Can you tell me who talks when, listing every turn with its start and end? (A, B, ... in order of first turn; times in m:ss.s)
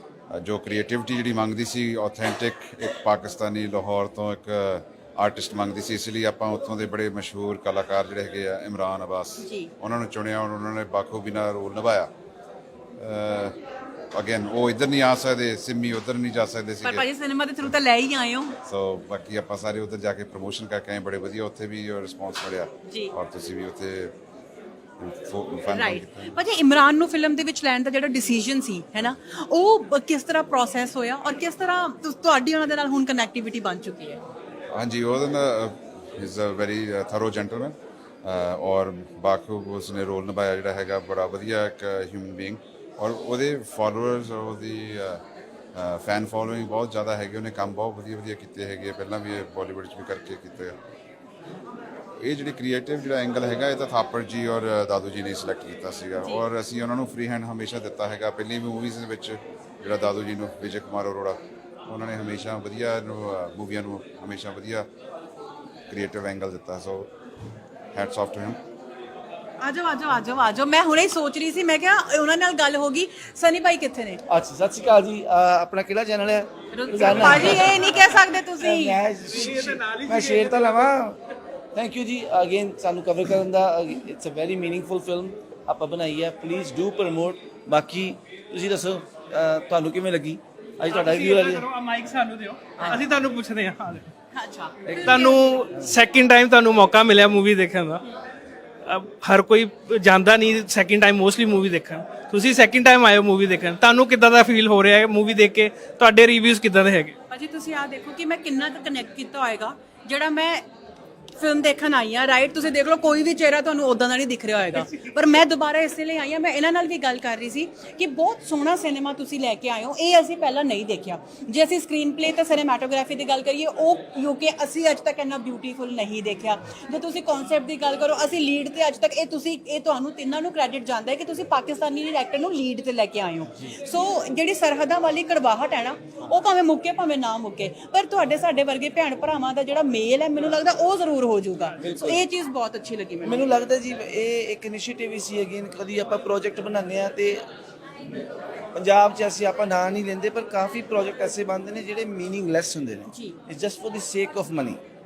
0:00.3-0:12.1 A
0:09.4-0:09.7 B
0:13.0-0:13.6 A
0:14.1-0:17.1 A
0:16.8-0:18.6 B
0:18.6-0:24.1 A
0:22.9-0:23.2 B
0:25.0-0:26.4 A
0:25.7-0:34.2 B
0:34.7-0:45.2 A
0:45.7-0:50.8 A
0:52.2-1:04.9 A
0:56.2-0:56.4 B
1:05.9-1:07.1 A
1:07.9-1:08.6 A
1:09.6-1:14.2 B
1:14.3-1:21.2 C
1:16.7-1:19.0 B
1:21.8-1:31.7 C
1:30.9-1:34.1 D
1:34.3-1:35.7 B
1:34.9-1:35.2 C
1:35.0-1:38.0 D
1:38.8-1:47.2 D
1:47.3-1:50.6 B
1:51.4-2:23.5 B
2:21.8-2:22.3 C
2:23.2-2:27.4 C
2:28.8-2:34.8 C
2:33.1-2:33.4 B